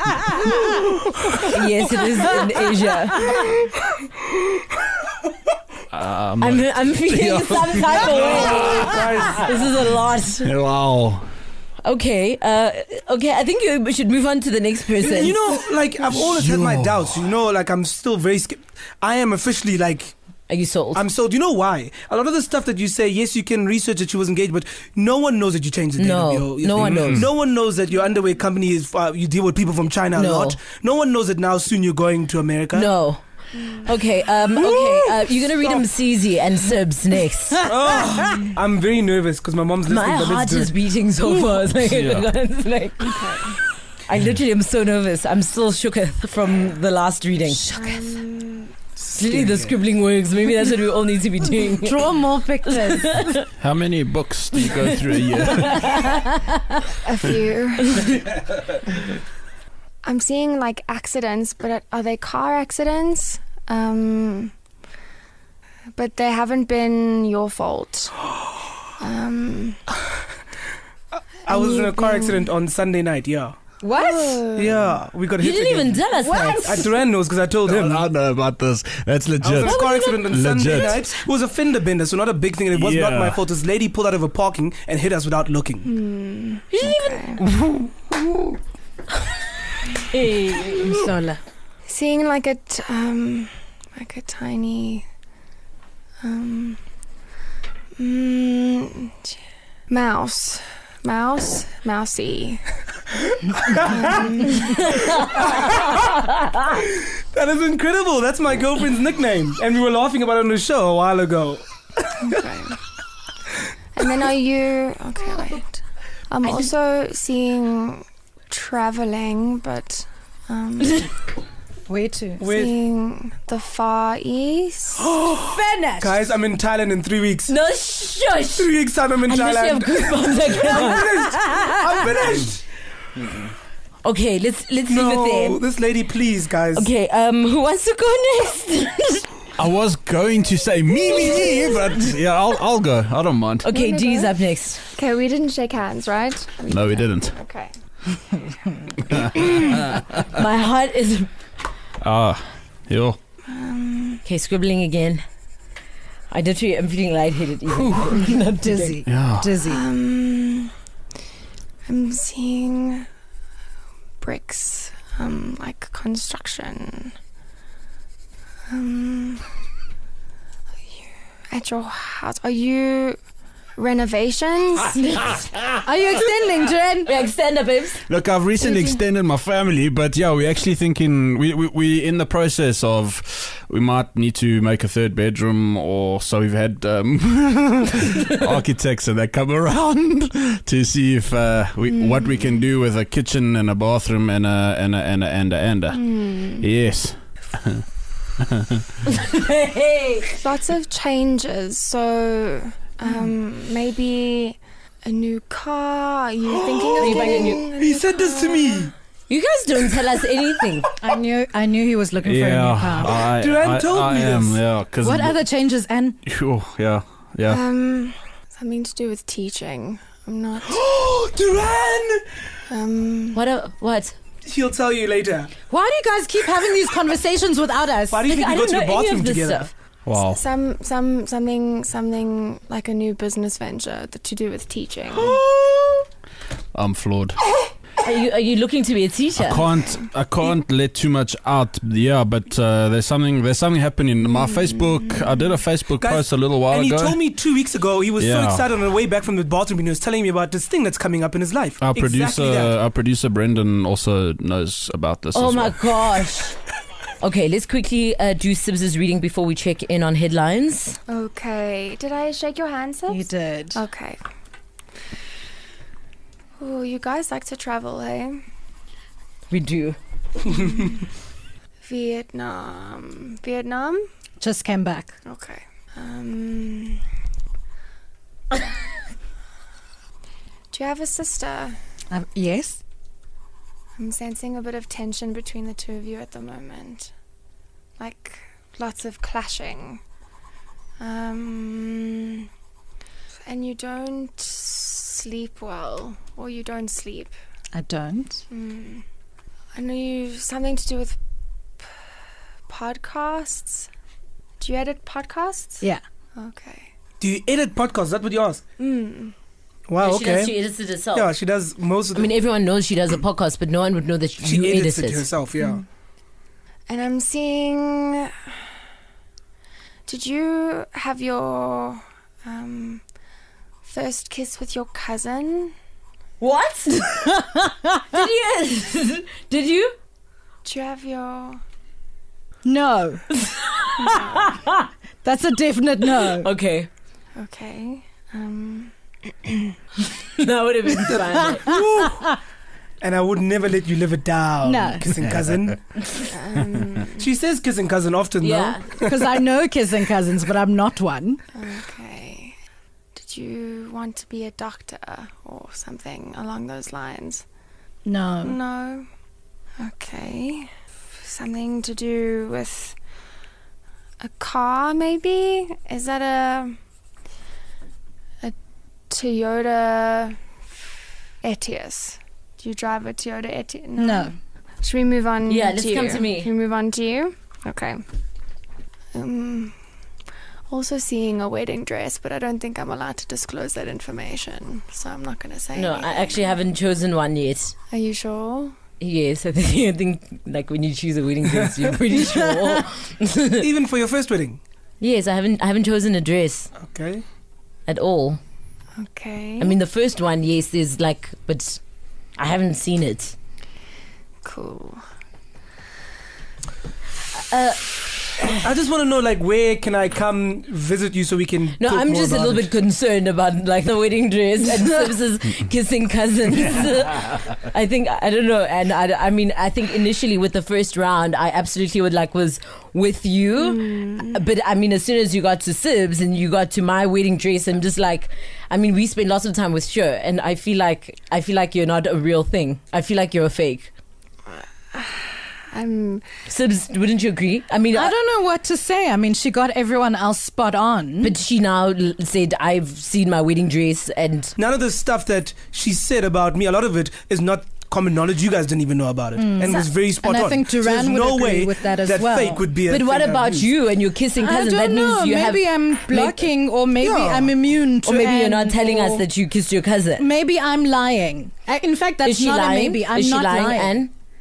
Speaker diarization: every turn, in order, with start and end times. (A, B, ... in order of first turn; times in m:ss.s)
0:01.4-0:03.5 A
0:05.9-0:08.4 B
0:06.4-0:10.5 A
0:08.1-0:09.4 C
0:10.4-0:11.2 B
0:11.8-0:15.4 A
0:15.0-0:20.1 C
0:16.1-0:17.2 B
0:20.5-0:21.0 A
0:20.9-0:32.9 C
0:26.0-0:27.3 A
0:26.8-0:27.2 B
0:30.1-0:30.6 A
0:32.7-0:33.2 A
0:33.6-0:33.9 D
0:33.8-0:37.7 A
0:34.6-0:35.2 C
0:37.6-0:40.7 C
0:39.9-0:43.2 A
0:41.8-0:42.3 B
0:43.0-0:43.6 D
0:44.1-0:47.7 A
0:47.5-0:48.0 E
0:47.8-0:48.7 D
0:49.0-0:49.7 C
0:49.2-0:53.5 A
0:51.7-0:53.4 E
0:53.6-0:56.0 B
0:54.7-0:56.3 A
0:57.0-0:58.2 D
1:00.0-1:04.5 D
1:06.0-1:08.3 D
1:09.0-1:09.8 D
1:11.5-1:13.6 C
1:11.5-1:12.5 D
1:13.8-1:14.4 E
1:14.0-1:15.0 D
1:14.6-1:16.0 C
1:15.4-1:16.8 A
1:16.1-1:17.0 E
1:16.6-1:18.1 C
1:17.7-1:21.0 B
1:19.4-1:25.9 C
1:19.7-1:20.2 D
1:22.7-1:23.4 B
1:25.8-1:27.4 D
1:26.7-1:27.4 A
1:29.9-1:31.4 A
1:31.9-1:35.0 D
1:36.2-1:36.8 D
1:38.0-1:39.4 D
1:39.9-1:42.6 D
1:43.5-1:44.2 C
1:43.9-1:44.9 D
1:44.8-1:46.0 C
1:46.7-1:51.6 C
1:52.2-1:52.8 D
1:54.0-2:01.1 D
2:01.9-2:02.5 E
2:02.4-2:02.8 C
2:02.5-2:05.1 D
2:05.3-2:06.2 E
2:06.0-2:07.5 C
2:07.5-2:08.7 A
2:08.6-2:12.6 C
2:09.2-2:11.4 A
2:14.0-2:15.6 A
2:14.9-2:16.9 C
2:16.7-2:19.3 A
2:19.6-2:23.7 B
2:23.6-2:24.8 A
2:23.7-2:24.3 D
2:24.9-2:27.7 D
2:26.7-2:27.4 B
2:29.1-2:29.8 D
2:30.3-2:31.3 A
2:32.0-2:33.2 B
2:33.5-2:34.2 D
2:34.2-2:35.2 A
2:36.3-2:39.0 A
2:37.8-2:39.8 E
2:39.0-2:39.5 B
2:39.6-2:40.7 D
2:41.9-2:43.1 D
2:44.2-2:47.1 D
2:48.7-2:49.5 D
2:51.5-2:53.2 D
2:53.8-2:55.0 D
2:55.8-2:57.1 E
2:57.0-2:58.0 A
2:58.1-3:16.1 B
2:58.6-2:59.0 D
3:11.9-3:12.6 D
3:15.9-3:16.7 D
3:16.6-3:17.8 B
3:19.1-3:20.3 A
3:20.4-3:28.9 D
3:26.5-3:28.9 C
3:27.0-3:27.7 A
3:29.3-3:30.9 A
3:31.0-3:33.2 E
3:32.2-3:35.4 B
3:33.2-3:34.6 C
3:35.0-3:36.2 E
3:36.3-3:37.6 B
3:37.5-3:40.8 D
3:40.6-3:42.3 C
3:42.7-3:43.4 D
3:43.3-3:44.2 A
3:44.4-3:45.5 C
3:45.7-3:48.2 E
3:48.1-3:49.7 C
3:48.2-3:49.7 A
3:50.1-3:50.4 B
3:50.2-3:55.4 D
3:56.8-3:57.4 B
3:58.0-3:59.7 A
3:59.4-4:07.2 B
4:06.0-4:12.7 C
4:08.2-4:08.6 B
4:11.8-4:15.8 B
4:15.3-4:16.6 A
4:17.2-4:21.0 A
4:21.1-4:24.2 D
4:23.1-4:23.8 E
4:26.6-4:28.4 D
4:29.5-4:30.0 A
4:30.4-4:31.0 D
4:31.8-4:34.1 D
4:34.4-4:35.1 E
4:35.2-4:37.0 D
4:40.7-4:41.8 D
4:42.1-4:42.8 E
4:44.0-4:47.1 D
4:48.0-4:50.0 D
4:51.0-4:52.5 D
4:53.4-4:57.3 D
4:57.8-4:58.4 E
4:58.5-4:59.0 D
4:59.8-5:01.2 D
5:02.7-5:03.9 D
5:04.6-5:05.8 D
5:06.4-5:06.9 D
5:07.2-5:08.6 C
5:08.8-5:09.3 D
5:09.9-5:10.6 C
5:10.0-5:11.3 A
5:11.1-5:12.3 C
5:12.1-5:15.3 A
5:14.4-5:15.8 C
5:16.9-5:18.3 D
5:20.1-5:23.0 D
5:23.9-5:25.7 D
5:26.4-5:30.0 A
5:30.6-5:31.6 D
5:32.6-5:33.2 E
5:33.3-5:34.9 A
5:34.0-5:34.6 D
5:35.2-5:36.5 E
5:36.1-5:36.9 A
5:37.4-5:39.8 D
5:40.4-5:41.8 A
5:41.3-5:42.3 C
5:41.4-5:42.1 E
5:43.0-5:45.8 C
5:44.6-5:45.1 E
5:46.2-5:47.3 D
5:47.2-5:49.0 C
5:48.4-5:48.9 A
5:49.0-5:51.4 E
5:51.6-5:52.6 D
5:53.2-5:57.4 D
5:58.1-5:58.6 E
5:58.4-5:59.1 D
5:59.8-6:03.0 D
6:04.2-6:06.8 D
6:09.1-6:10.4 D
6:11.4-6:18.0 D
6:14.0-6:14.3 E
6:15.4-6:16.5 A
6:19.1-6:19.7 D
6:20.7-6:26.6 D
6:25.7-6:27.7 A
6:27.9-6:28.8 D
6:29.0-6:33.7 A
6:31.5-6:31.9 C
6:33.6-6:34.6 C
6:35.0-6:36.7 A
6:36.8-6:37.2 C
6:37.9-6:38.4 A
6:39.0-6:39.8 D
6:39.6-6:41.8 A
6:42.4-6:43.4 A
6:44.4-6:45.0 D
6:47.4-6:48.6 A
6:48.5-6:52.7 C
6:51.8-7:13.9 A
7:03.6-7:04.4 D
7:14.5-7:16.3 D
7:16.5-7:18.1 A
7:17.9-7:21.4 E
7:21.2-7:24.6 A
7:24.6-7:33.7 C
7:29.4-7:32.6 E
7:32.9-7:36.5 A
7:34.4-7:39.2 E
7:37.0-7:37.5 C
7:38.0-7:40.2 A
7:40.2-7:44.1 E
7:42.2-7:44.1 A